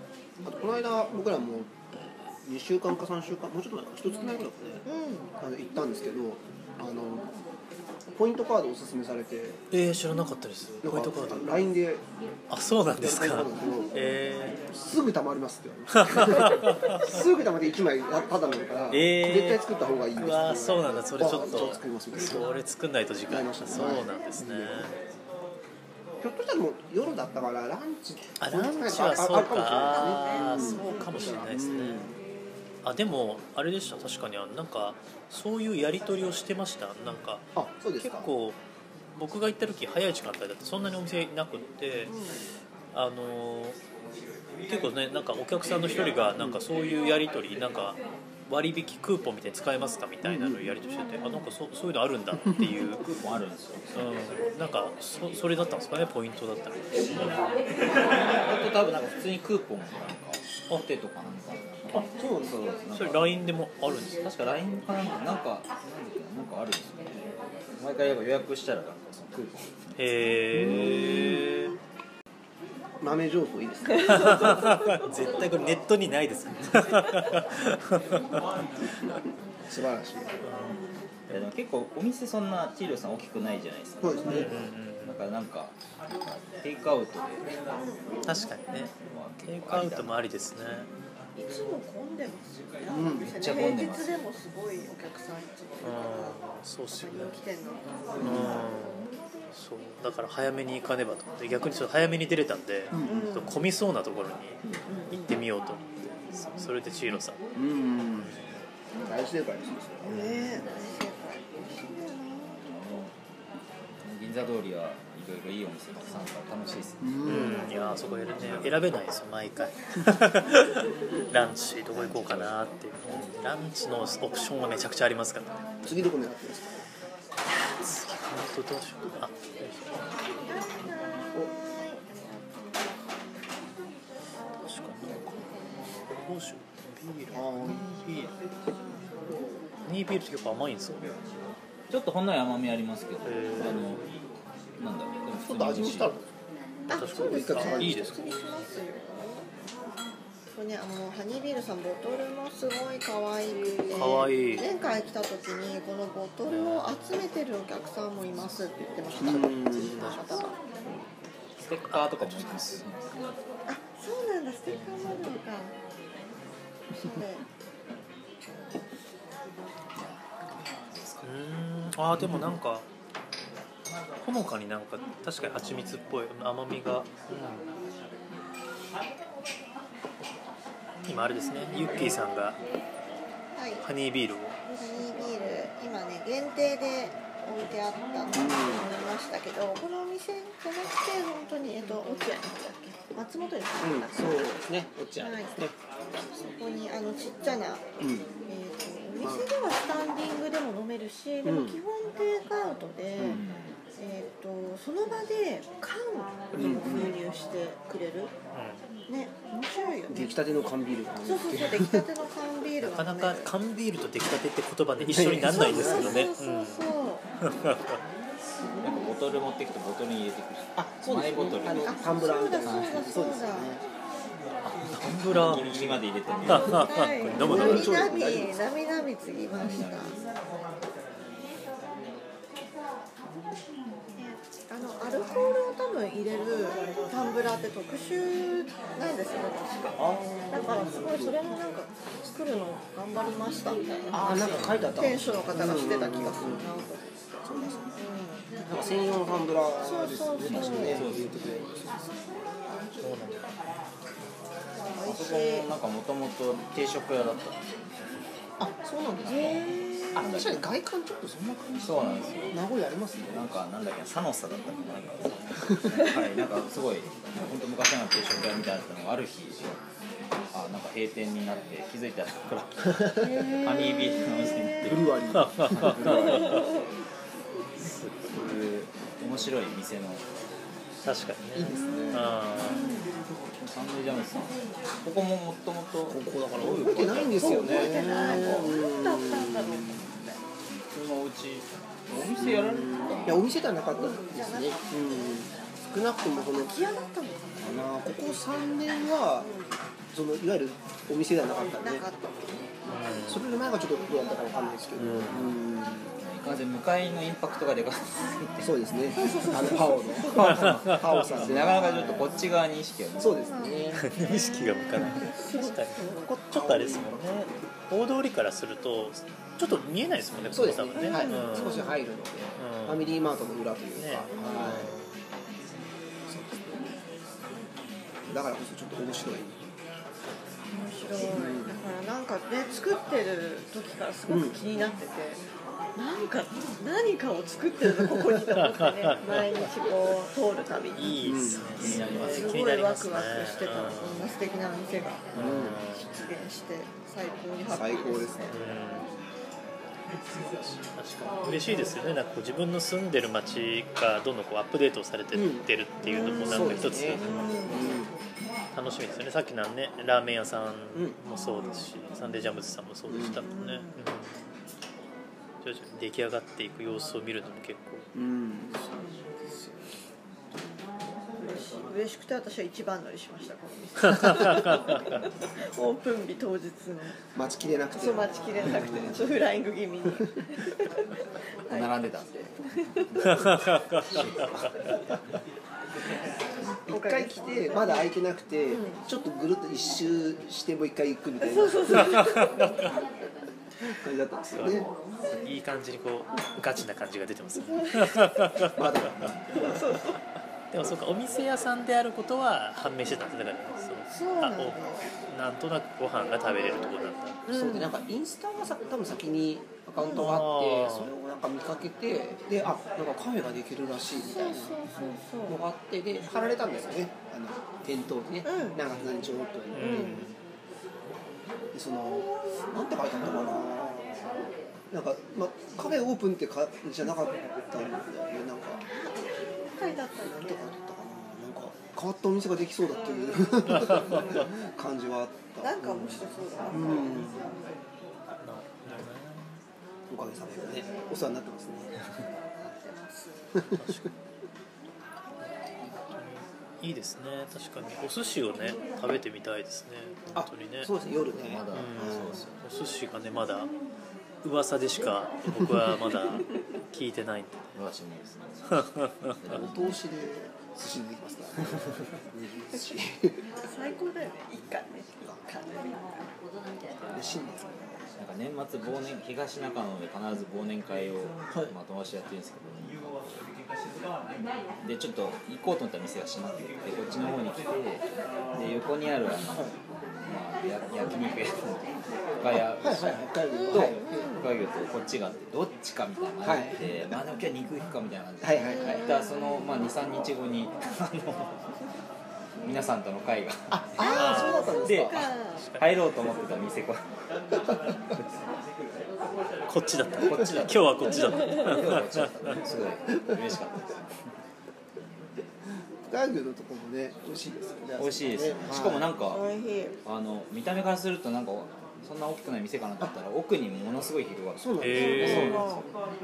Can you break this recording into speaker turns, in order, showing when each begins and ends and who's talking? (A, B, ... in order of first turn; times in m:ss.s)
0:00.4-0:04.8 A
0:04.9-0:05.3 B
0:05.4-0:07.3 A
0:08.1-0:09.6 A
0:09.7-0:11.5 C
0:10.8-0:12.0 A
0:12.5-0:14.6 C
0:13.0-0:13.9 A
0:14.7-0:22.5 A
0:16.0-0:17.2 C
0:18.9-0:19.6 C
0:20.2-0:25.0 C
0:23.3-0:25.0 A
0:26.2-0:32.2 A
0:28.4-0:32.1 C
0:29.9-0:31.2 B
0:32.8-0:38.6 C
0:37.5-0:38.3 A
0:39.2-0:42.2 C
0:42.1-0:42.5 B
0:42.9-0:43.8 C
0:44.7-0:53.1 C
0:50.2-0:50.7 A
0:53.0-0:54.3 D
0:53.9-0:57.4 C
0:58.0-1:03.4 D
1:01.9-1:02.8 A
1:02.9-1:04.2 C
1:04.2-1:10.0 D
1:10.0-1:11.7 C
1:10.5-1:11.4 A
1:13.0-1:14.6 A
1:14.0-1:18.4 C
1:19.7-1:20.4 A
1:20.4-1:20.8 C
1:21.3-1:25.8 D
1:24.0-1:24.5 A
1:24.2-1:25.2 C
1:26.6-1:27.7 D
1:27.7-1:28.3 B
1:28.2-1:28.9 C
1:29.0-1:30.6 D
1:29.5-1:30.9 C
1:31.4-1:37.8 B
1:32.9-1:33.3 A
1:33.4-1:34.2 D
1:35.8-1:37.4 C
1:38.2-1:38.7 A
1:38.2-1:47.4 C
1:42.9-1:43.3 A
1:43.0-1:43.6 B
1:44.8-1:45.4 B
1:47.5-1:48.4 A
1:48.2-1:48.6 C
1:49.0-1:50.3 A
1:50.1-1:50.6 C
1:50.1-1:52.8 B
1:52.4-1:53.2 D
1:54.0-1:57.1 D
1:57.0-1:57.7 A
1:57.2-2:05.7 C
1:57.3-1:58.1 B
1:58.4-1:58.8 D
2:01.9-2:02.6 D
2:05.8-2:06.9 A
2:07.8-2:10.1 C
2:10.5-2:13.6 B
2:14.6-2:15.5 C
2:16.1-2:18.3 C
2:17.3-2:17.9 A
2:18.8-2:19.6 B
2:19.9-2:21.2 C
2:21.9-2:24.0 D
2:23.2-2:24.0 C
2:24.8-2:26.2 D
2:25.4-2:26.2 A
2:26.9-2:29.5 B
2:26.9-2:28.6 C
2:27.0-2:28.1 A
2:30.5-2:40.6 B
2:33.9-2:34.7 C
2:36.5-2:36.9 C
2:39.2-2:40.1 A
2:39.7-2:40.5 C
2:41.6-2:43.4 D
2:41.9-2:42.6 C
2:43.7-2:45.8 B
2:44.7-2:45.0 C
2:46.9-2:47.4 B
2:50.0-2:50.2 D
2:50.8-2:51.3 D
2:51.2-2:52.9 C
2:54.2-2:57.7 C
2:55.6-2:56.0 D
3:01.1-3:02.6 C
3:03.5-3:03.9 B
3:03.8-3:04.6 C
3:04.7-3:14.5 B
3:08.3-3:08.9 A
3:13.8-3:15.7 A
3:15.2-3:23.4 B
3:18.0-3:18.3 A
3:19.2-3:19.5 A
3:21.4-3:21.8 A
3:23.2-3:23.4 A
3:23.3-3:23.8 D
3:24.0-3:28.4 B
3:26.5-3:27.2 A
3:28.5-3:28.8 C
3:29.1-3:30.4 B
3:30.1-3:32.0 A
3:31.2-3:33.5 B
3:32.8-3:36.9 C
3:35.0-3:36.2 A
3:35.5-3:37.3 B
3:37.4-3:38.0 C
3:38.8-3:42.0 D
3:40.8-3:43.8 A
3:41.7-3:43.8 B
3:42.6-3:43.0 D
3:44.6-3:45.8 C
3:44.6-3:48.0 D
3:46.4-3:48.0 C
3:46.5-3:50.2 B
3:47.4-3:48.6 A
3:49.5-3:50.2 D
3:54.2-4:07.3 B
4:00.0-4:01.4 A
4:04.1-4:06.7 A
4:04.6-4:04.9 C
4:07.4-4:08.0 A
4:07.9-4:08.5 B
4:08.7-4:12.1 A
4:09.8-4:11.1 B
4:10.5-4:11.4 D
4:13.0-4:13.5 C
4:14.9-4:15.7 B
4:15.0-4:17.6 D
4:18.6-4:23.5 A
4:19.2-4:20.3 B
4:19.3-4:20.7 D
4:21.8-4:22.6 D
4:23.3-4:29.8 D
4:30.5-4:35.1 D
4:33.2-4:34.8 B
4:34.8-4:36.4 A
4:35.3-4:36.7 C
4:35.8-4:36.5 D
4:36.1-4:36.7 B
4:37.8-4:38.5 C
4:38.3-4:40.2 D
4:41.0-4:42.9 C
4:41.5-4:42.3 A
4:41.7-4:43.1 B
4:43.5-4:48.6 D
4:46.1-4:50.1 A
4:47.3-4:50.4 B
4:50.9-4:53.5 D
4:52.4-4:56.8 A
4:53.9-4:55.4 B
4:56.6-4:57.9 B
4:57.6-4:59.5 A
4:59.4-4:59.7 B
5:00.1-5:02.1 A
5:01.8-5:02.7 B
5:02.9-5:03.4 C
5:03.3-5:06.2 A
5:05.0-5:05.6 C
5:06.2-5:08.7 D
5:08.6-5:12.3 A
5:09.2-5:10.5 B
5:10.4-5:13.5 D
5:10.4-5:11.5 C
5:11.7-5:12.4 B
5:13.2-5:14.0 A
5:13.2-5:16.4 B
5:14.0-5:21.8 C
5:16.4-5:17.5 A
5:20.5-5:24.9 A
5:21.0-5:22.0 B
5:22.6-5:23.1 C
5:24.0-5:25.1 C
5:24.3-5:25.0 B
5:26.3-5:26.9 A
5:28.3-5:29.7 A
5:30.7-5:35.4 B
5:31.1-5:31.8 A
5:34.3-5:34.6 A
5:36.0-5:41.2 B
5:38.6-5:39.6 C
5:41.0-5:44.3 C
5:41.2-5:42.1 A
5:41.8-5:42.6 D
5:41.9-5:48.6 B
5:45.3-5:45.8 A
5:45.3-5:46.1 C
5:47.7-5:48.7 A
5:48.5-5:49.1 C
5:50.8-5:57.8 C
5:55.3-5:55.7 A
5:56.0-5:58.0 B
5:56.2-5:58.1 A
5:58.7-6:04.4 C
6:03.1-6:03.4 A
6:03.4-6:04.0 B
6:05.6-6:08.1 C
6:08.1-6:08.8 A
6:08.9-6:09.4 B
6:11.4-6:17.2 B
6:14.2-6:14.8 C
6:17.3-6:19.4 A
6:18.0-6:21.1 B
6:21.7-6:23.5 B
6:21.7-6:22.3 D
6:23.2-6:25.0 C
6:24.1-6:24.8 D
6:26.9-6:32.3 A
6:26.9-6:28.1 B
6:28.7-6:29.0 B
6:31.4-6:32.6 B
6:32.2-6:32.8 C
6:33.9-6:34.9 A
6:34.6-6:38.8 C
6:37.8-6:38.2 B
6:38.7-6:39.8 A
6:39.5-6:39.8 C
6:39.5-6:40.2 B
6:40.7-6:47.4 C
6:44.1-6:45.1 B
6:47.5-6:47.9 B
6:47.5-6:54.8 A
6:50.0-6:50.3 B
6:50.1-6:51.1 C
6:54.2-6:55.6 B
6:55.5-7:00.3 A
6:58.4-6:58.8 B
6:59.7-7:00.3 C
6:59.8-7:00.3 B
7:01.7-7:04.2 A
7:04.9-7:08.8 A
7:08.8-7:10.7 B
7:10.2-7:17.5 A
7:13.5-7:14.3 B
7:14.0-7:14.2 C
7:15.6-7:17.7 B
7:18.4-7:19.6 C
7:20.1-7:22.0 A
7:22.2-7:23.6 B
7:23.7-7:24.1 C
7:26.1-7:30.9 C
7:30.3-7:32.4 A
7:31.4-7:32.6 D
7:31.7-7:33.7 C
7:34.4-7:37.7 C
7:37.8-7:39.8 D
7:38.8-7:39.4 C
7:39.5-7:43.4 A
7:43.6-7:46.3 B
7:47.1-7:48.2 A
7:48.2-7:53.4 D
7:54.8-8:11.7 D
8:02.8-8:04.3 A
8:03.5-8:04.5 B
8:06.4-8:07.2 A
8:08.4-8:09.0 A
8:08.6-8:09.6 B
8:12.6-8:13.8 D
8:13.7-8:15.3 A
8:14.0-8:15.6 B
8:14.1-8:14.8 C
8:14.8-8:17.1 D
8:15.6-8:15.9 C
8:19.7-8:22.3 C
8:20.3-8:24.1 D
8:26.1-8:29.1 A
8:28.0-8:29.5 D
8:29.3-8:30.0 B
8:30.0-8:35.9 D
8:34.6-8:35.7 A
8:34.8-8:35.6 C
8:34.9-8:35.9 B